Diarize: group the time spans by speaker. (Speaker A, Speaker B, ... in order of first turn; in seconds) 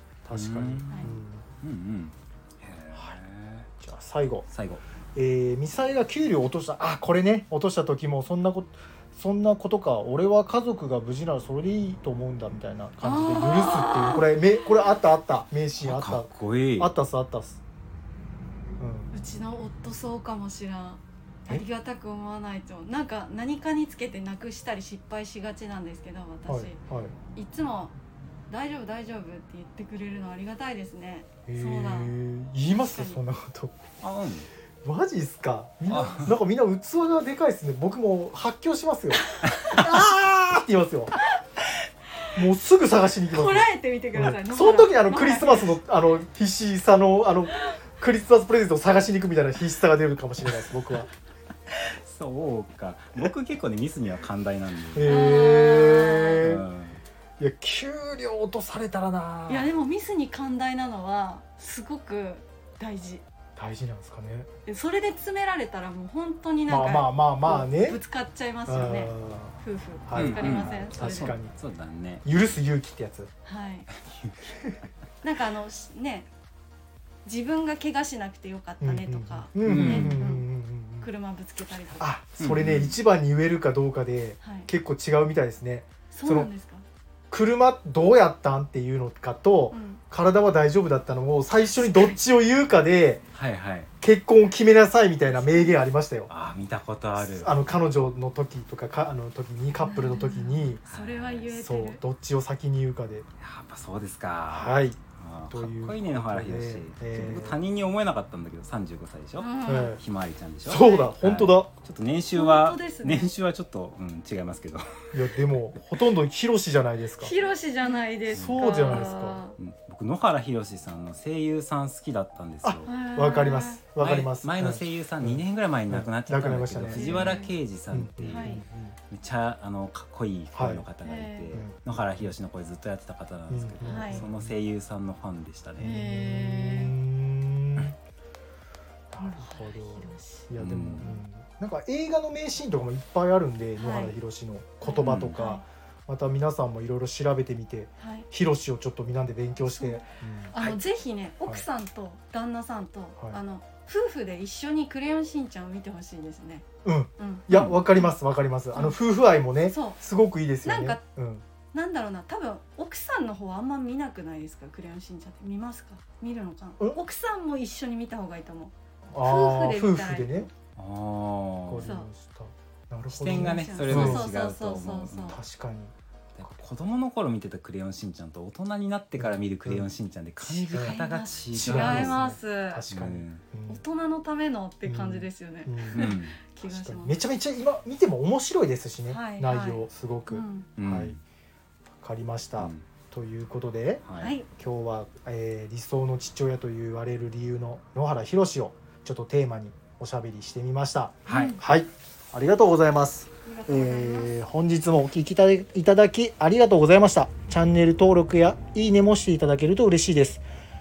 Speaker A: 0.2-1.4, 3.8-4.5, 5.2-17.6, 18.8-19.1, 26.5-27.1, 31.5-33.8, 34.8-41.2, 42.4-51.1, 55.0-56.7, 57.4-59.7, 63.6-64.5, 66.7-68.0, 68.7-69.5, 70.1-71.5, 72.2-73.3, 78.8-81.1, 82.0-86.5, 87.3-93.2, 94.0-96.3, 97.2-100.8, 101.6-103.3, 104.5-105.0, 105.5-107.6, 109.7-110.0, 110.7-111.7, 115.1-117.3, 118.3-119.4, 122.6-128.9, 130.5-130.9, 131.5-132.2, 133.5-134.5, 135.8-138.0, 139.1-150.8, 156.8-161.4, 169.1-170.5, 171.7-174.3, 175.3-175.9, 179.2-179.9, 180.7-181.0, 181.5-183.8, 184.9-191.2, 192.0-210.4
Speaker B: 0.3-3.7, 4.5-4.8, 15.8-16.9, 34.0-34.5, 35.9-36.4, 39.5-39.9, 51.7-55.2, 56.4-57.0, 70.1-72.3, 74.1-74.6, 79.6-80.2, 82.4-83.0, 93.3-93.9, 96.3-97.5, 100.9-101.6, 103.4-114.9, 118.3-119.1, 119.6-122.9, 124.0-135.9, 140.6-141.2, 145.0-145.4, 170.8-171.9, 173.2-175.4, 176.3-182.2, 182.9-183.4, 185.9-186.4, 190.8-191.2, 192.6-192.8, 194.1-194.3, 201.3-201.6
Speaker C: 13.0-14.7, 19.1-26.8, 27.4-27.9, 28.5-32.1, 32.7-33.2, 43.3-45.7, 55.0-56.4, 59.5-63.2, 64.7-71.4, 73.5-73.9, 75.2-76.3, 77.2-80.5, 81.0-82.2, 84.4-84.7, 86.1-86.8, 89.7-90.0, 91.7-92.2, 95.2-95.8, 99.8-102.0, 109.4-110.0, 110.8-111.1, 112.3-113.3, 117.2-119.6, 122.8-123.8, 126.9-127.5, 128.3-128.6, 131.0-131.6, 133.8-134.3, 135.8-136.9, 139.2-140.5, 143.8-144.2, 144.8-145.6, 148.0-148.3, 149.6-156.7, 157.2-158.2, 158.7-159.0, 159.7-160.0, 160.6-161.0, 161.7-170.5, 171.8-172.1, 173.1-175.4, 180.4-182.8, 183.7-187.2, 189.1-190.7, 194.2-194.5, 201.3-201.6, 203.4-204.3